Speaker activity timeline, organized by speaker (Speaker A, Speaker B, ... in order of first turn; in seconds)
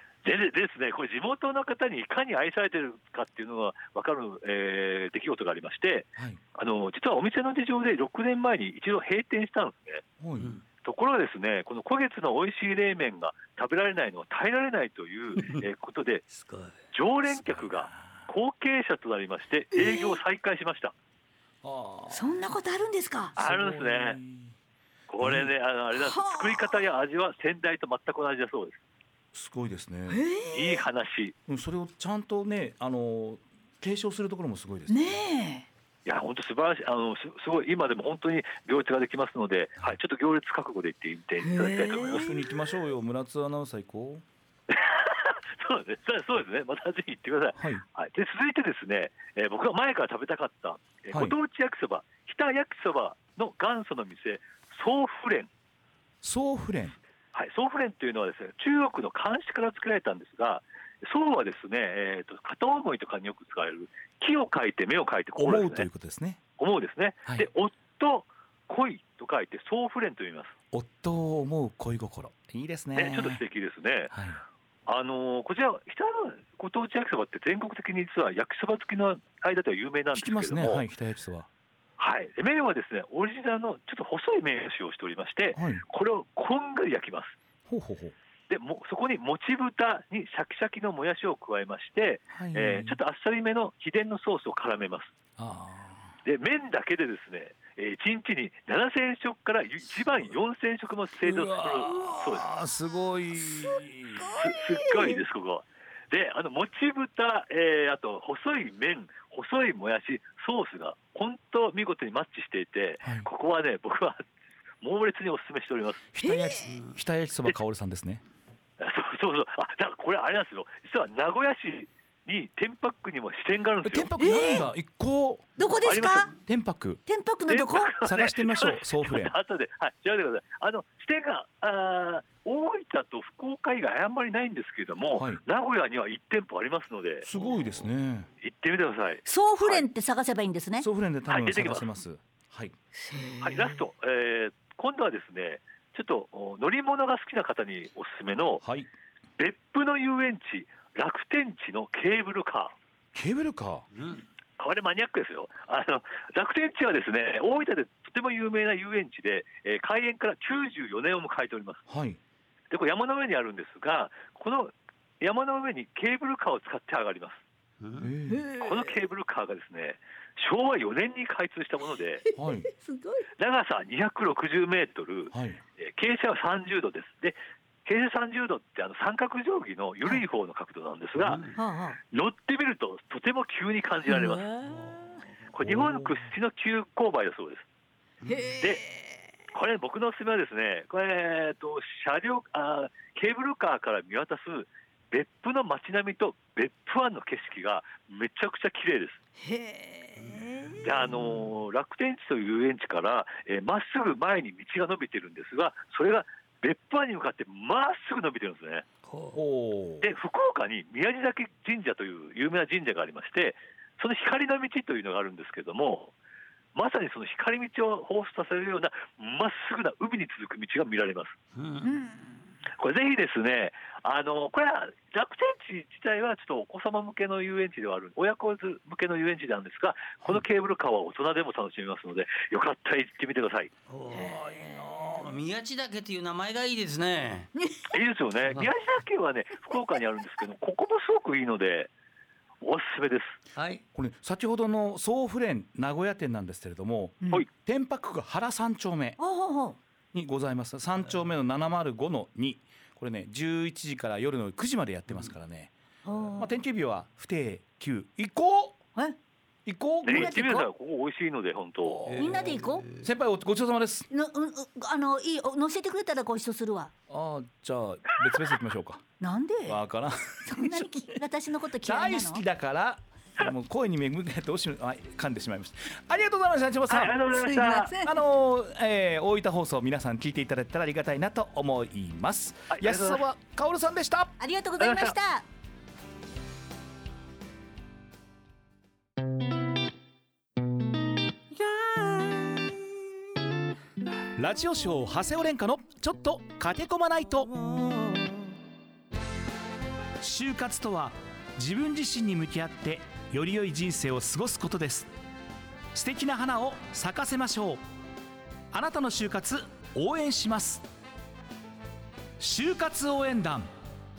Speaker A: 0.2-10.0, 10.8-16.2, 16.9-20.9, 23.4-24.2, 25.1-28.8, 30.5-31.4, 36.1-42.3, 44.7-55.5, 57.4-65.9, 66.6-70.5, 73.0-74.1, 74.9-80.8, 82.0-87.3, 88.5-95.1, 96.2-102.5, 104.3-114.2, 114.8-116.1, 118.8-124.1, 125.8-126.3, 127.5-137.3, 138.4-139.8, 141.3-141.9, 143.4-148.6, 149.4-152.7, 154.6-161.8, 162.7-167.4, 168.6-172.2, 173.4-181.5, 182.1-184.5, 185.5-187.6, 189.5-199.2, 200.8-208.9, 210.0-216.1, 216.8-221.4, 222.8-233.7, 237.9-241.9, 242.6-243.4, 260.1-262.0, 276.9-277.9, 282.7-283.2, 284.8-285.1
Speaker B: 10.2-10.6, 21.6-22.4, 23.4-24.5, 25.2-25.5, 29.3-30.2, 31.5-35.2, 42.1-44.2, 47.6-47.8, 56.2-57.0, 65.4-66.4, 70.7-73.4, 74.1-74.4, 80.1-81.5, 85.5-85.8, 87.7-88.2, 92.3-93.0, 95.4-96.1, 101.2-104.3, 116.1-118.2, 123.8-125.5, 126.4-127.0, 128.0-129.3, 135.2-135.4, 137.2-138.3, 140.8-142.8, 148.6-148.9, 153.2-153.9, 161.9-162.2, 168.0-168.4, 172.4-172.7, 175.3-175.6, 209.3-210.1, 243.9-249.2, 250.1-255.7, 256.4-258.8, 259.7-260.4, 261.8-262.4, 263.0-264.1, 267.1-269.0, 269.7-271.2, 271.8-277.1, 278.0-284.4, 294.4-297.6, 300.2-305.1, 305.9-307.8, 308.7-310.9, 312.4-313.7
Speaker C: 10.4-10.6, 16.3-16.8, 154.0-154.2, 181.2-181.6, 188.2-188.5, 209.1-209.4, 221.6-221.9, 233.9-237.5, 243.6-243.8, 262.1-263.0
Speaker D: 19.8-20.2, 22.1-23.3, 25.9-26.8, 30.1-30.8, 34.9-35.7, 41.4-42.4, 104.3-105.2, 116.2-116.7, 124.2-124.7, 125.6-126.3, 127.1-127.9, 139.3-140.9, 143.0-143.8, 168.3-168.9, 172.3-173.3, 181.6-182.0, 184.1-184.7, 188.3-189.2, 199.4-200.8, 221.8-222.3, 237.6-237.9, 249.2-249.8, 256.1-256.5, 260.1-260.7, 262.2-262.9, 264.1-266.9, 269.2-269.8, 270.5-272.4, 277.0-278.1, 284.4-285.4